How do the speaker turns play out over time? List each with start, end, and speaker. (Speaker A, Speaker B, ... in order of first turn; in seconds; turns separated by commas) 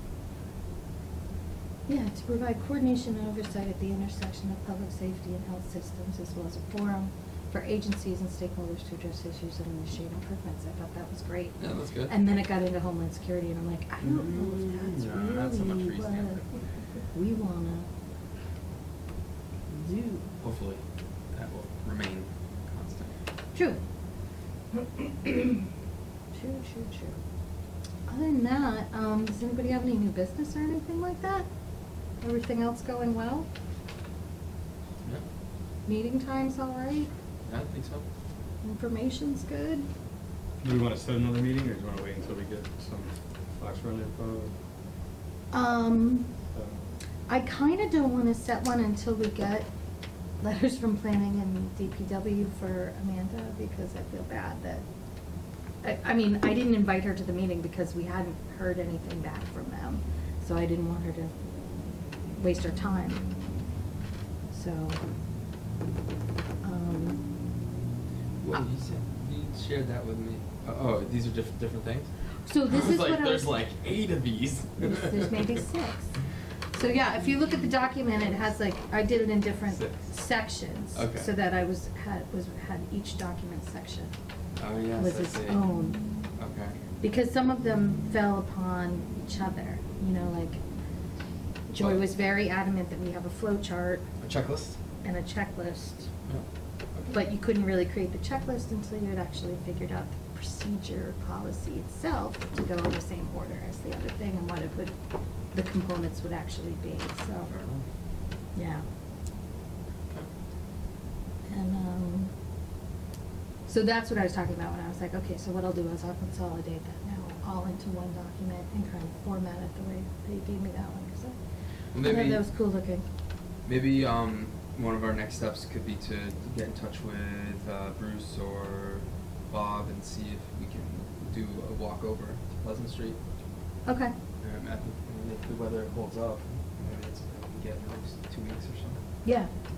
Speaker A: 1.9-16.4, Speaker B: 11.6-12.2, Speaker B: 14.0-16.4, Speaker A: 17.1-17.9, Speaker A: 19.7-20.2, Speaker B: 20.4-23.1, Speaker A: 23.5-23.8, Speaker A: 24.8-25.7, Speaker A: 26.3-27.2, Speaker A: 28.1-31.5, Speaker A: 32.2-33.5, Speaker A: 35.9-37.1, Speaker B: 37.4-38.1, Speaker A: 38.6-39.9, Speaker C: 40.6-44.5, Speaker A: 45.5-46.3, Speaker C: 46.5-46.8, Speaker A: 47.3-49.7, Speaker A: 50.4-54.9, Speaker A: 55.8-61.3, Speaker A: 62.4-63.3, Speaker A: 64.5-65.0, Speaker A: 66.6-67.2, Speaker B: 68.4-72.1, Speaker A: 72.5-73.5, Speaker B: 72.6-75.5, Speaker A: 74.8-76.1, Speaker A: 76.7-84.1, Speaker B: 79.7-80.1, Speaker B: 81.0-81.3, Speaker B: 84.6-85.7, Speaker A: 85.0-86.0, Speaker B: 86.4-86.8, Speaker A: 87.0-90.6, Speaker A: 91.7-94.0, Speaker B: 94.2-94.8, Speaker A: 95.0-96.1, Speaker B: 96.3-97.2, Speaker A: 97.1-105.0, Speaker A: 105.5-107.5, Speaker B: 107.5-107.8, Speaker A: 108.5-108.8, Speaker A: 111.5-112.3, Speaker A: 113.7-121.4, Speaker B: 121.9-122.4, Speaker A: 122.0-123.0, Speaker B: 123.7-133.2, Speaker A: 133.9-134.1, Speaker B: 134.4-139.0, Speaker A: 139.2-139.5